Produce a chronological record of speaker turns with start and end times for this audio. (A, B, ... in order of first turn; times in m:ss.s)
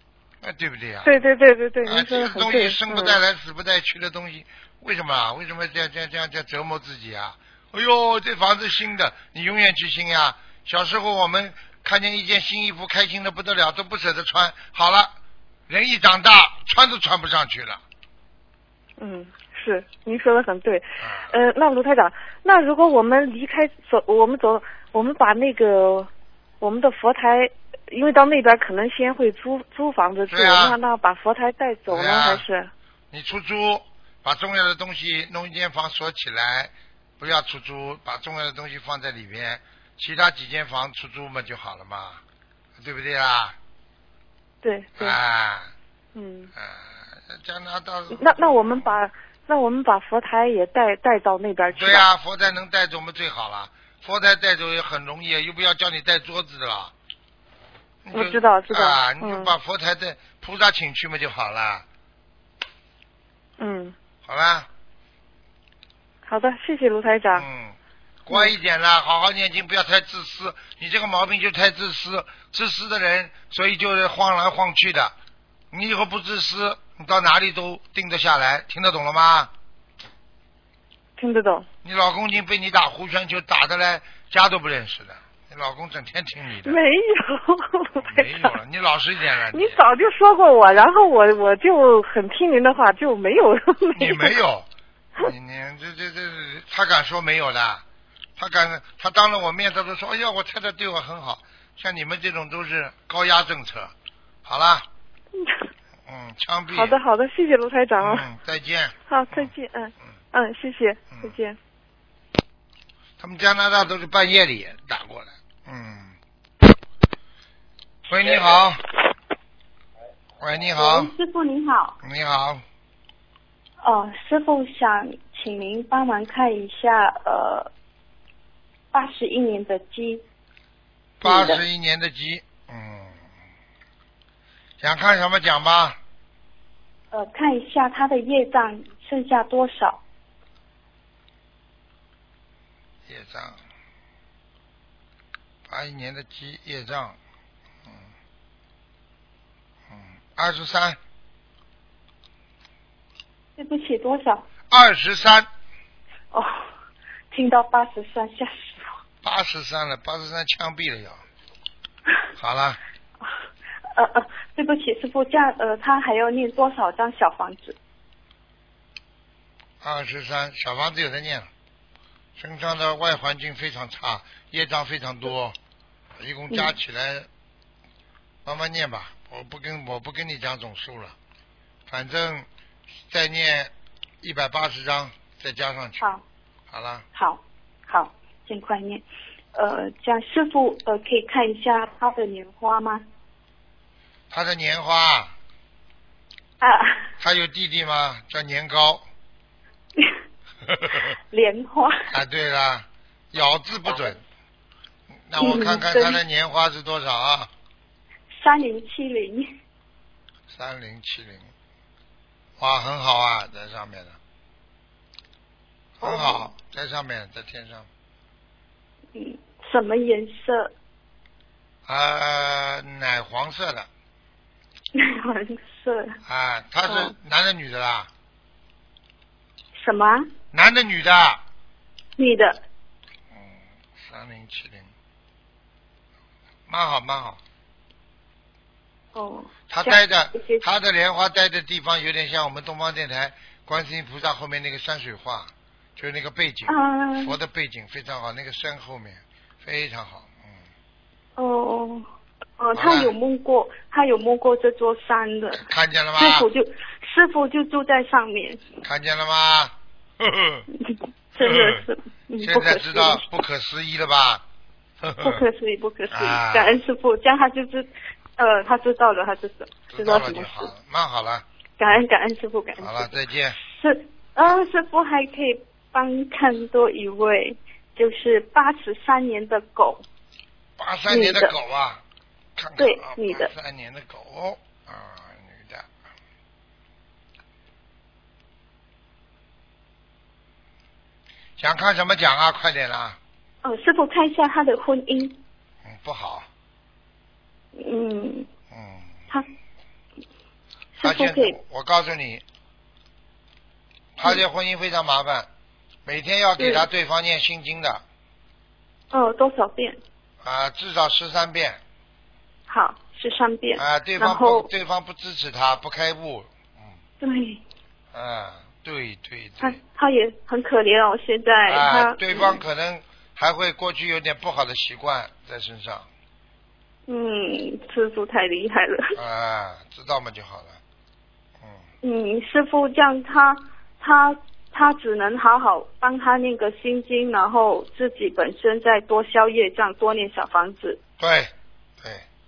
0:00.4-0:01.2 A
0:01.0-0:03.2 B
0:01.8-0:15.1 A
0:15.7-0:17.8 A
0:19.0-0:26.1 B
0:21.0-0:21.3 A
0:26.6-0:32.7 B
0:30.3-0:30.8 A
0:31.9-0:32.4 A
0:33.1-0:42.2 A
0:42.8-0:43.6 A
0:44.6-0:45.2 B
0:45.0-0:45.7 A
0:46.1-0:46.5 B
0:46.5-0:48.9 A
0:48.1-0:52.0 B
0:51.7-0:56.9 A
0:58.0-1:01.8 A
0:58.1-0:59.5 B
1:03.6-1:03.9 B
1:04.2-1:04.7 A
1:06.3-1:07.4 B
1:07.3-1:15.1 A
1:15.7-1:19.5 A
1:21.2-1:21.7 B
1:21.8-1:26.8 A
1:26.6-1:28.5 B
1:28.0-1:29.8 A
1:29.5-1:34.4 B
1:33.9-1:34.7 A
1:35.2-1:37.8 A
1:38.4-1:43.9 A
1:44.4-1:44.9 A
1:45.3-1:45.6 B
1:46.0-1:47.0 A
1:46.7-1:48.2 B
1:48.0-1:49.5 A
1:49.1-1:51.6 B
1:53.2-1:56.2 A
1:58.1-1:58.8 A
2:00.4-2:01.1 A
2:00.8-2:02.0 C
2:02.0-2:02.6 A
2:03.8-2:07.7 C
2:08.9-2:10.2 C
2:11.2-2:13.2 A
2:11.2-2:11.6 C
2:14.8-2:16.0 A
2:17.1-2:20.0 C
2:23.1-2:23.6 A
2:25.7-2:27.2 A
2:29.9-2:31.0 A
2:33.6-2:34.4 C
2:34.7-2:35.5 A
2:36.3-2:36.7 C
2:37.3-2:39.0 C
2:39.2-2:41.2 A
2:42.4-2:42.8 A
2:43.9-2:47.8 C
2:49.8-2:51.5 A
2:52.4-2:55.6 A
2:56.2-2:57.3 A
2:58.4-3:01.1 A
3:01.9-3:02.5 A
3:03.1-3:06.0 A
3:06.7-3:07.0 A
3:07.1-3:13.0 C
3:14.3-3:15.3 A
3:16.6-3:17.0 C
3:17.2-3:19.0 A
3:20.6-3:21.1 A
3:21.3-3:22.1 C
3:22.1-3:24.2 A
3:25.2-3:27.5 A
3:25.4-3:26.2 C
3:28.3-3:29.5 C
3:30.5-3:31.5 A
3:32.6-3:34.2 A
3:36.0-3:36.5 C
3:36.0-3:37.9 A
3:39.1-3:40.7 C
3:41.9-3:43.9 A
3:44.9-3:46.1 C
3:46.2-3:48.1 A
3:46.8-3:47.1 C
3:49.7-3:50.3 C
3:50.5-3:51.4 A
3:52.2-3:52.6 C
3:53.3-3:54.9 A
3:56.7-3:57.4 A
3:59.1-4:00.6 C
3:59.7-4:10.6 A
4:06.7-4:07.4 C
4:11.4-4:12.0 C
4:12.6-4:18.7 C
4:12.7-4:13.1 A
4:15.5-4:16.5 A
4:18.8-4:20.6 A
4:20.7-4:23.2 C
4:21.4-4:21.7 A
4:22.4-4:24.4 A
4:25.0-4:25.4 A
4:25.2-4:30.7 C
4:26.1-4:26.8 A
4:29.9-4:32.0 A
4:31.8-4:40.0 C
4:32.8-4:33.6 A
4:40.8-4:42.0 A
4:41.1-4:41.5 C
4:42.6-4:45.9 A
4:42.8-4:43.5 C
4:51.6-4:53.2 A
4:53.6-4:55.4 C
4:55.8-4:56.5 A
4:57.8-4:58.5 C
4:58.7-4:59.1 A
5:01.0-5:01.6 C
5:01.0-5:02.4 A
5:04.2-5:05.5 A
5:06.0-5:08.0 A
5:06.6-5:06.8 C
5:09.1-5:10.0 C
5:10.4-5:11.8 A
5:12.7-5:14.7 C
5:13.8-5:17.0 A
5:17.2-5:17.6 C
5:18.1-5:19.8 A
5:19.6-5:22.6 C
5:21.7-5:26.1 A
5:27.1-5:29.2 C
5:29.2-5:30.8 A
5:32.0-5:41.0 C
5:41.2-5:42.2 A